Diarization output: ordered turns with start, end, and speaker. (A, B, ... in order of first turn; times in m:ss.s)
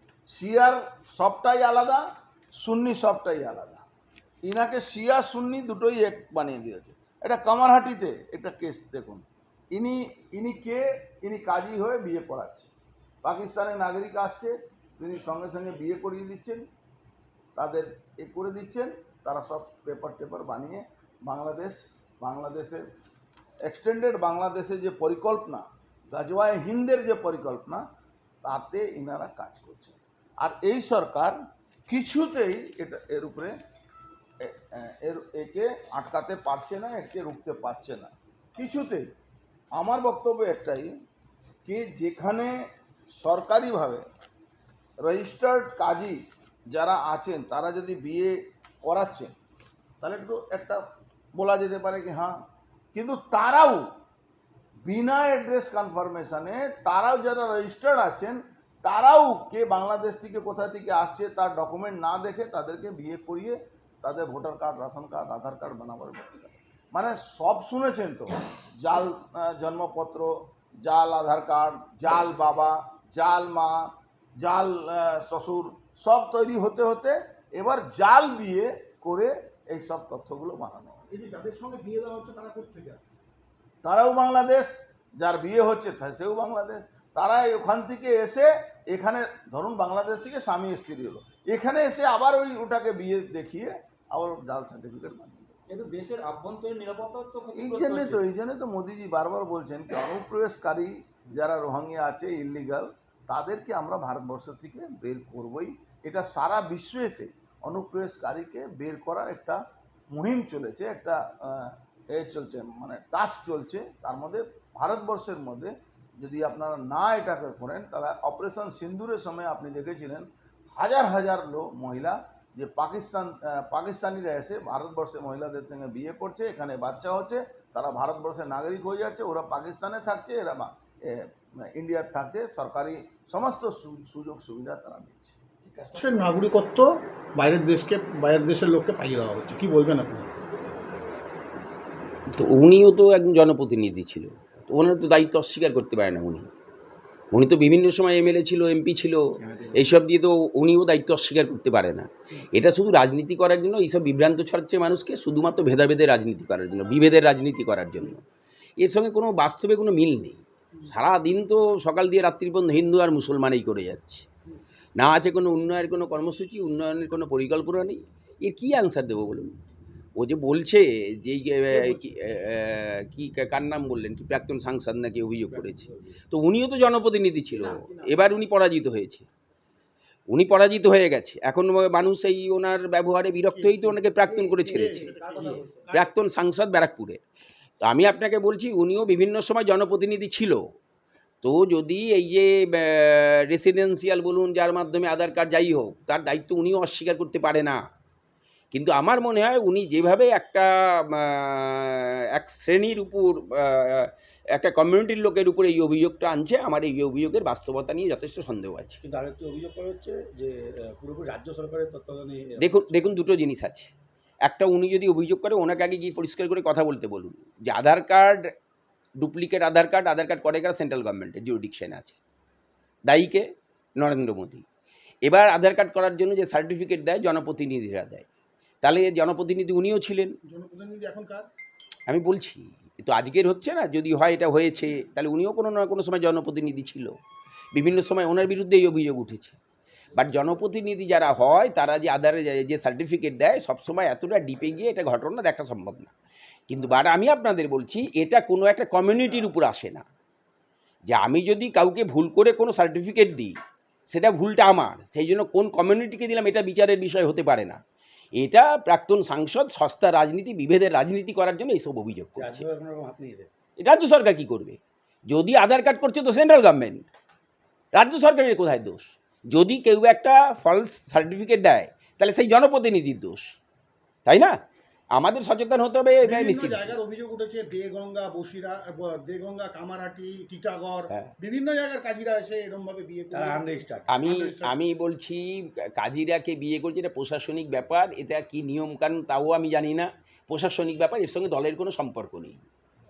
0:00.3-0:02.0 A
0:02.5-0:03.8 A
0:04.4-0:12.7 A
0:13.2-0:16.6 A
0:17.6-0:22.8 A
0:23.6-0:27.8 A
0:28.4-0:31.4 A
0:31.9-0:33.5 A
0:34.4-0:39.1 A
0:39.7-0:40.9 A
0:41.6-0:42.6 A
0:43.1-0:44.0 A
0:45.0-0:46.2 A
0:46.7-0:49.3 A
0:50.0-0:50.8 A
0:51.3-0:53.9 A
0:54.8-1:21.0 A
1:21.1-1:23.1 B
1:23.8-1:35.6 A
1:35.7-1:38.2 C
1:37.5-2:15.4 A
2:15.9-2:20.3 B
2:22.3-2:26.5 D
2:27.3-2:29.2 D
2:29.5-2:29.7 E
2:29.7-2:38.2 D
2:38.8-2:44.2 D
2:45.0-2:49.5 D
2:50.2-2:59.2 D
2:51.7-2:52.0 B
2:55.4-2:56.1 E
2:57.5-2:58.3 B
3:00.3-3:05.1 D
3:03.5-3:06.1 B
3:04.6-3:05.8 C
3:05.9-3:07.2 D
3:07.8-3:10.6 D
3:11.4-3:17.8 D
3:18.7-3:29.0 D
3:29.0-3:33.0 E
3:32.6-3:33.9 D
3:34.4-3:38.4 D
3:39.2-3:42.2 D
3:43.1-3:43.4 D
3:44.0-3:44.6 D
3:45.2-3:48.2 D
3:48.8-3:50.3 D
3:50.5-3:51.5 B
3:52.1-3:57.1 D
3:57.7-3:59.6 D
4:00.1-4:06.1 D
4:06.7-4:10.0 D
4:11.1-4:13.6 D
4:14.1-4:17.8 D
4:18.4-4:22.6 D
4:22.4-4:23.5 E
4:23.8-4:27.0 D
4:27.9-4:33.4 D
4:34.2-4:34.5 D
4:35.1-4:37.0 D
4:36.2-4:44.8 B
4:43.3-4:44.2 E
4:44.1-4:52.6 D